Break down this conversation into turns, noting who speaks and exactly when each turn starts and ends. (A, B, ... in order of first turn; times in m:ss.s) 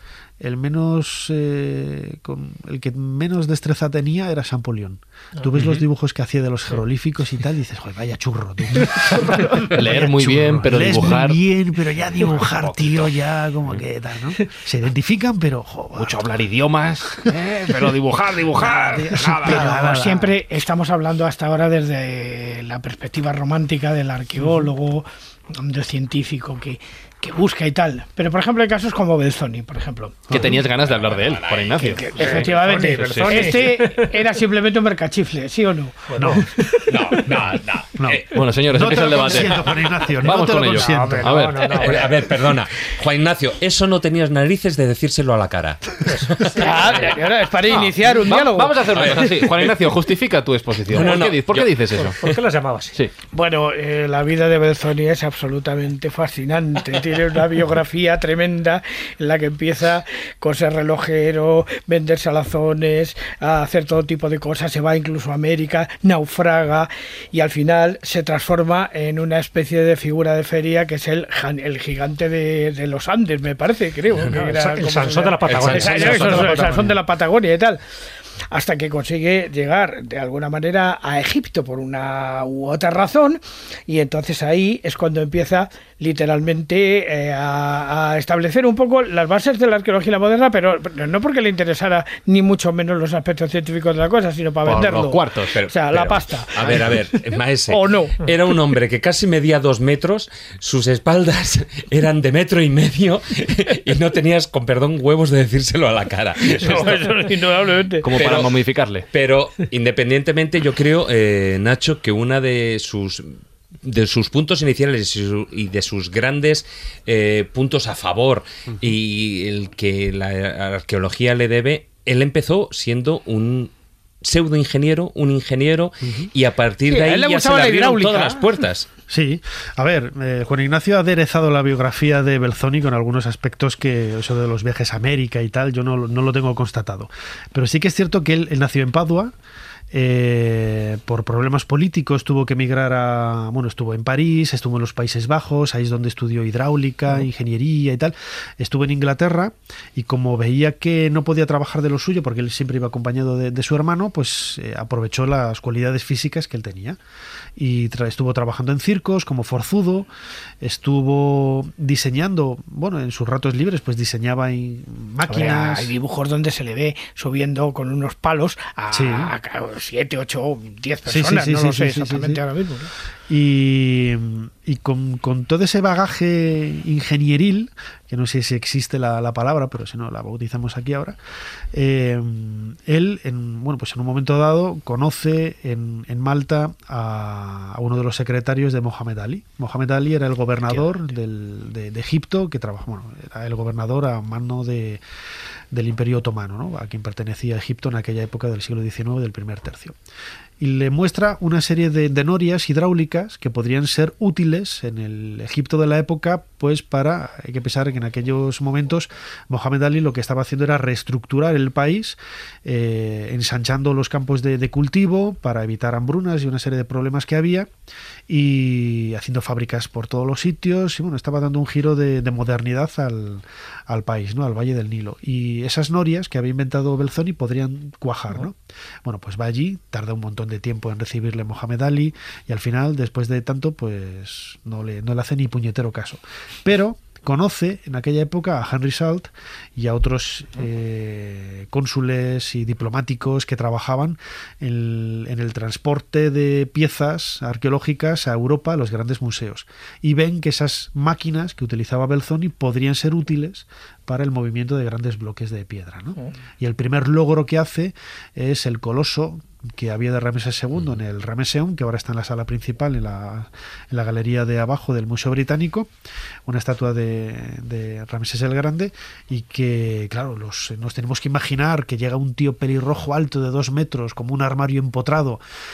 0:00.4-0:16.2 A
0:05.6-0:05.8 B
0:09.7-0:11.4 B
0:12.4-0:13.1 B
0:16.0-0:19.8 B
0:18.7-0:20.3 A
0:19.4-0:30.4 C
0:30.3-0:30.6 A
0:30.3-0:33.6 B
0:30.8-0:32.7 D
0:31.8-0:37.5 C
0:32.2-0:34.0 E
0:36.1-0:36.4 E
0:36.2-0:36.4 A
0:36.9-0:39.9 D
0:38.0-0:41.3 A
0:38.3-0:42.1 B
0:40.7-0:42.0 E
0:41.8-0:47.2 D
0:46.0-0:47.1 E
0:46.6-0:49.0 C
0:47.6-0:52.2 B
0:48.9-0:49.8 D
0:50.9-0:51.7 D
0:51.9-0:52.9 E
0:53.3-1:17.8 C
1:14.4-1:16.6 E
1:15.4-1:16.6 D
1:15.6-1:17.0 B
1:18.5-1:38.3 C
1:34.6-1:35.6 B
1:35.5-1:47.4 D
1:46.5-1:48.1 C
1:48.0-1:49.0 B
1:48.1-1:48.5 D
1:49.1-2:03.7 D
2:04.2-2:08.9 D
2:06.0-2:06.3 A
2:06.8-2:08.5 C
2:09.1-2:19.3 A
2:19.9-2:37.0 A
2:37.6-2:40.1 A
2:40.6-2:45.9 A
2:45.3-2:52.9 C
2:48.9-2:49.3 A
2:51.1-2:52.4 A
2:53.3-3:01.2 A
3:01.7-3:15.0 A
3:15.7-3:20.0 A
3:20.6-3:37.7 A
3:38.3-4:25.9 A
4:26.4-4:35.4 A